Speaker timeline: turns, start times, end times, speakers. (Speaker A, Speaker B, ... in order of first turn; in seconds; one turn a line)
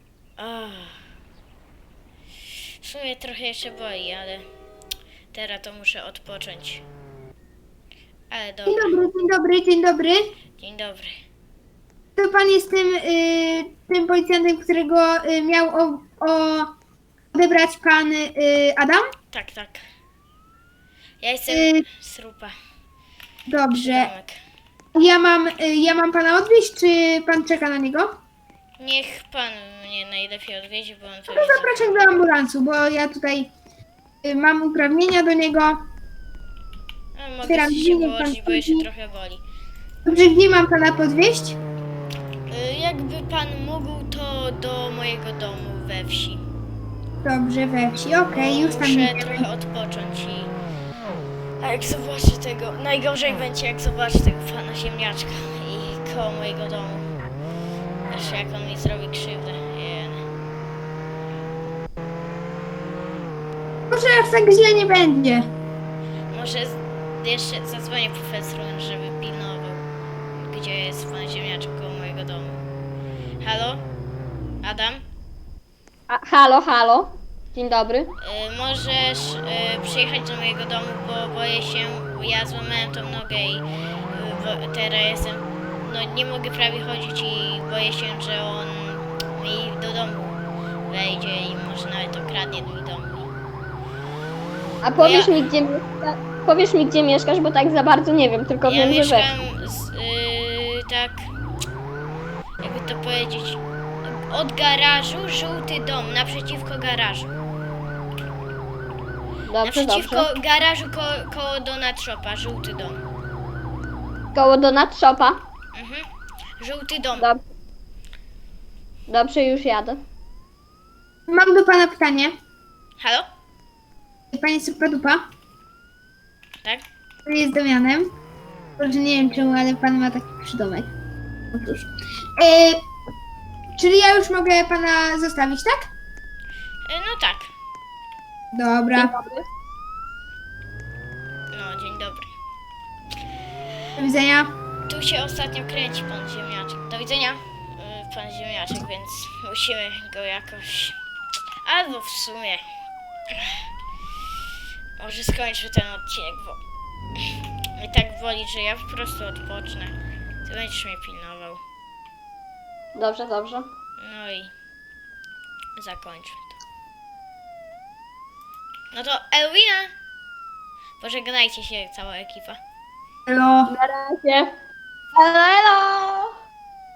Speaker A: 0.4-1.0
Speaker A: 2.8-4.5
Speaker A: 5.3-6.8
Speaker A: 8.3-9.0
Speaker B: 8.7-10.2
Speaker A: 10.6-11.2
Speaker B: 12.2-16.7
Speaker B: 17.3-19.0
Speaker A: 19.3-19.8
Speaker A: 21.2-22.5
Speaker B: 21.5-21.8
Speaker B: 23.5-24.1
Speaker A: 23.7-24.4
Speaker B: 24.9-28.2
Speaker A: 28.8-32.0
Speaker B: 31.3-33.5
Speaker B: 34.2-35.8
Speaker A: 37.1-39.4
Speaker B: 37.4-38.9
Speaker B: 40.0-41.6
Speaker A: 42.5-46.4
Speaker B: 47.2-49.5
Speaker A: 48.3-50.5
Speaker A: 51.6-57.0
Speaker A: 58.1-60.2
Speaker B: 63.9-65.5
Speaker A: 66.3-72.6
Speaker A: 73.4-73.8
Speaker A: 74.6-75.0
Speaker C: 76.1-78.1
Speaker A: 78.2-90.3
Speaker A: 90.9-93.3
Speaker C: 94.8-99.3
Speaker A: 95.0-95.3
Speaker A: 98.6-101.3
Speaker A: 102.6-107.3
Speaker C: 109.5-110.3
Speaker A: 109.6-113.0
Speaker C: 114.3-115.4
Speaker A: 115.7-116.0
Speaker A: 116.6-117.3
Speaker C: 119.1-120.0
Speaker B: 121.3-122.3
Speaker A: 123.0-123.2
Speaker B: 124.3-125.2
Speaker B: 127.2-128.1
Speaker B: 128.8-130.9
Speaker B: 131.5-132.8
Speaker B: 133.8-135.9
Speaker A: 136.8-137.5
Speaker B: 138.5-139.1
Speaker C: 138.9-139.4
Speaker A: 141.5-142.3
Speaker B: 143.9-144.5
Speaker A: 144.9-151.0
Speaker A: 151.6-152.6
Speaker A: 155.0-156.6
Speaker A: 157.8-161.6
Speaker C: 162.9-163.7
Speaker A: 164.0-164.5
Speaker A: 165.8-166.6
Speaker A: 168.9-169.9
Speaker A: 171.0-172.6
Speaker B: 173.3-173.7
Speaker C: 173.7-174.5
Speaker C: 175.1-176.3